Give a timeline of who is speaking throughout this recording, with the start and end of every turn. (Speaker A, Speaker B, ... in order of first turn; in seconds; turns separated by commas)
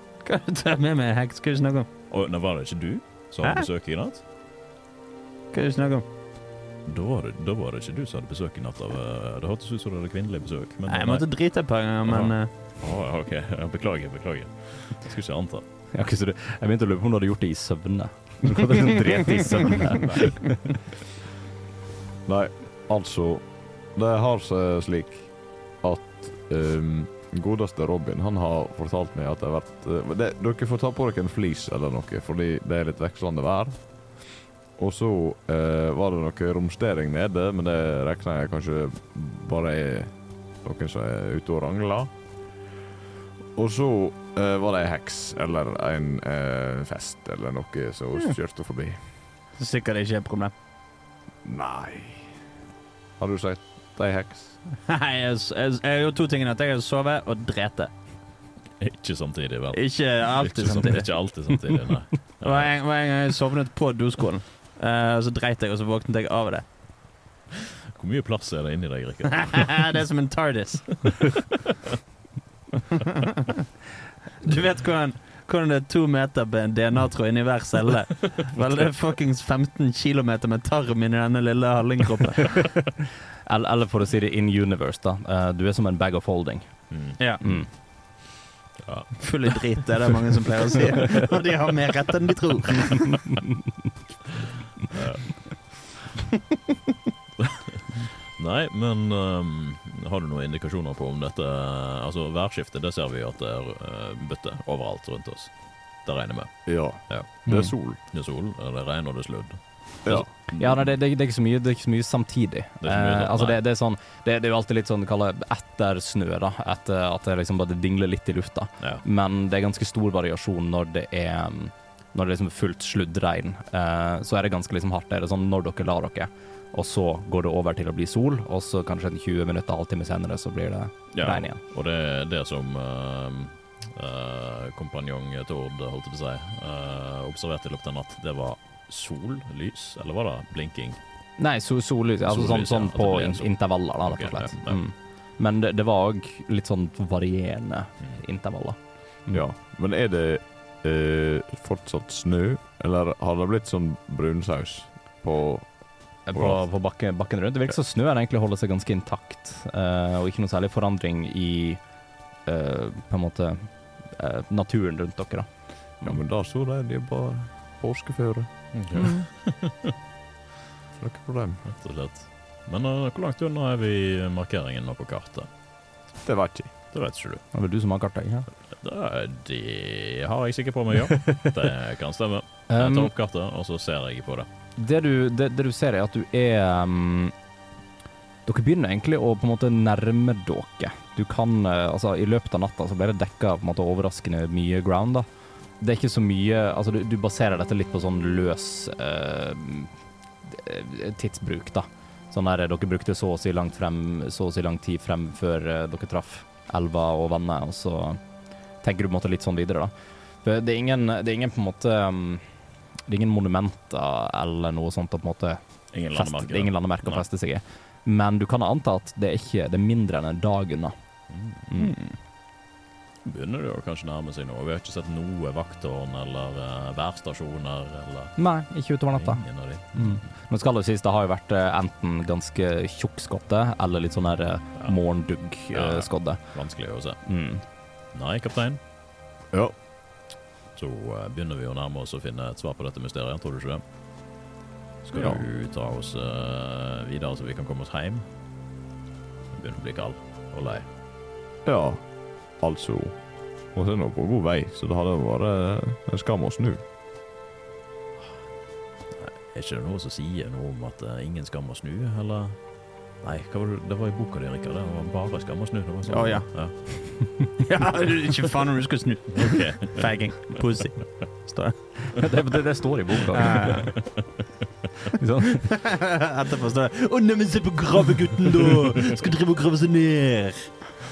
Speaker A: 0.2-1.9, Speaker B: 2.1-4.2, Speaker A: 5.5-6.0, Speaker B: 6.8-11.3, Speaker A: 10.9-12.5, Speaker B: 12.0-15.6, Speaker C: 15.9-20.6, Speaker D: 22.2-42.1, Speaker D: 43.5-49.0, Speaker A: 49.6-50.5, Speaker D: 51.4-52.3, Speaker D: 53.2-54.6, Speaker A: 54.9-57.9, Speaker B: 58.8-62.7, Speaker A: 59.7-61.1, Speaker A: 62.4-66.7, Speaker B: 67.9-69.9, Speaker A: 69.4-71.4, Speaker A: 74.4-82.8, Speaker C: 83.5-87.7, Speaker B: 86.9-87.2, Speaker B: 88.8-89.8, Speaker A: 89.2-93.3, Speaker B: 94.8-95.9, Speaker B: 97.4-110.3, Speaker D: 106.7-108.0, Speaker C: 107.5-107.7, Speaker D: 110.0-110.6, Speaker C: 110.5-131.6, Speaker B: 112.8-113.6, Speaker B: 131.1-141.0, Speaker C: 141.4-149.4, Speaker B: 142.3-144.8, Speaker D: 149.3-156.6, Speaker C: 156.2-161.8, Speaker C: 162.4-166.2, Speaker D: 166.0-168.5, Speaker B: 168.7-169.9, Speaker D: 171.0-171.6, Speaker B: 171.6-175.5, Speaker D: 176.2-176.7, Speaker B: 176.9-177.4, Speaker C: 177.5-178.5, Speaker B: 178.8-184.5, Speaker C: 182.7-183.1, Speaker C: 184.8-187.3, Speaker C: 188.4-195.3, Speaker C: 195.8-199.9, Speaker C: 200.4-208.2, Speaker C: 208.8-209.9, Speaker C: 210.4-212.4, Speaker C: 213.1-220.9, Speaker B: 215.9-217.2, Speaker B: 221.3-221.6, Speaker C: 221.7-221.9, Speaker A: 221.8-222.1, Speaker B: 223.2-228.3, Speaker C: 228.4-236.4, Speaker B: 229.1-230.2, Speaker B: 235.7-237.2, Speaker C: 237.2-237.6, Speaker B: 238.1-238.8, Speaker B: 240.8-243.8, Speaker B: 245.0-248.2, Speaker B: 249.5-250.8, Speaker D: 251.6-253.2, Speaker D: 253.7-256.8, Speaker B: 259.1-267.4, Speaker A: 266.1-272.2, Speaker B: 269.3-270.4, Speaker C: 272.1-273.8, Speaker A: 273.3-274.0, Speaker C: 275.2-275.6, Speaker A: 275.6-280.7